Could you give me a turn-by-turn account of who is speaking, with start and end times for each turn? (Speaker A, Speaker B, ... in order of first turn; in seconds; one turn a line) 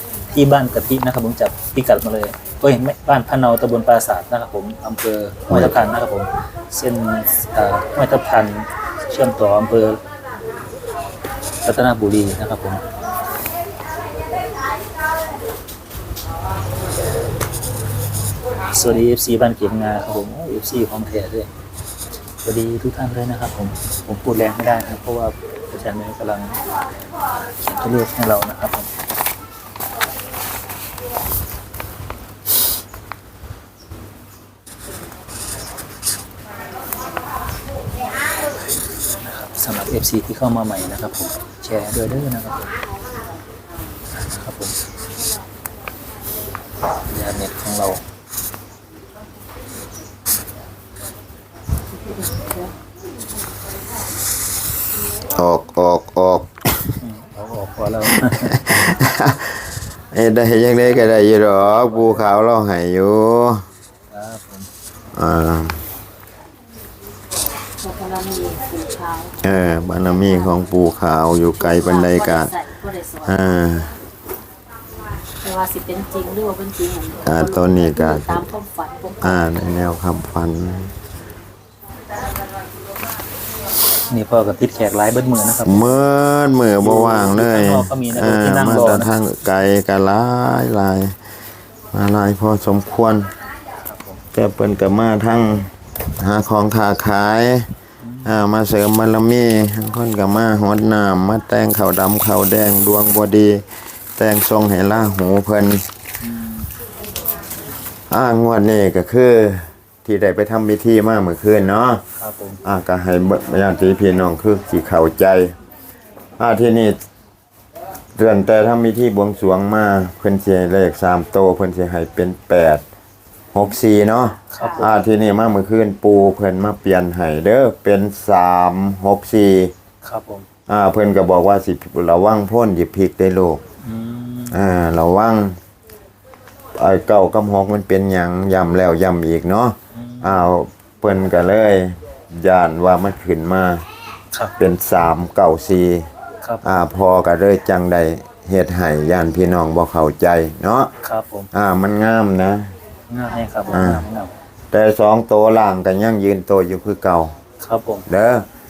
Speaker A: 0.3-10.0
Speaker B: 5.5-5.8
Speaker A: 11.6-12.8
Speaker A: 18.7-21.5
Speaker A: 22.4-26.6
Speaker A: 27.4-28.9
Speaker A: 39.2-42.7
Speaker A: 44.1-44.8
Speaker A: 47.1-48.0
Speaker C: 51.9-52.7
Speaker B: 55.4-57.0
Speaker A: 57.0-58.6
Speaker B: 58.1-63.7
Speaker A: 60.9-62.3
Speaker A: 64.1-64.7
Speaker B: 65.1-65.8
Speaker C: 67.8-69.4
Speaker B: 69.4-72.5
Speaker C: 70.2-70.5
Speaker C: 71.5-73.5
Speaker B: 73.3-73.9
Speaker C: 75.4-79.5
Speaker B: 77.2-78.5
Speaker B: 79.2-80.9
Speaker A: 84.1-85.8
Speaker B: 85.6-91.2
Speaker A: 86.8-89.1
Speaker B: 91.9-93.3
Speaker A: 93.9-94.2
Speaker B: 94.3-97.7
Speaker A: 98.0-98.3
Speaker B: 98.2-103.6
Speaker B: 104.2-105.9
Speaker A: 106.2-106.7
Speaker B: 108.1-112.0
Speaker A: 112.2-112.6
Speaker B: 112.6-115.5
Speaker B: 116.4-117.0
Speaker B: 118.2-122.8
Speaker B: 123.5-129.7
Speaker A: 124.5-124.9
Speaker C: 124.6-124.9
Speaker A: 130.0-130.5
Speaker B: 130.7-133.6
Speaker A: 133.8-134.6
Speaker B: 134.5-135.6
Speaker B: 136.8-143.9
Speaker A: 139.9-140.4
Speaker B: 144.6-146.1
Speaker A: 146.4-146.8
Speaker B: 146.6-150.9
Speaker A: 151.0-151.5
Speaker B: 151.5-152.7
Speaker A: 153.1-154.3
Speaker B: 153.7-154.1
Speaker B: 154.7-157.3
Speaker A: 157.6-158.1
Speaker B: 158.1-158.5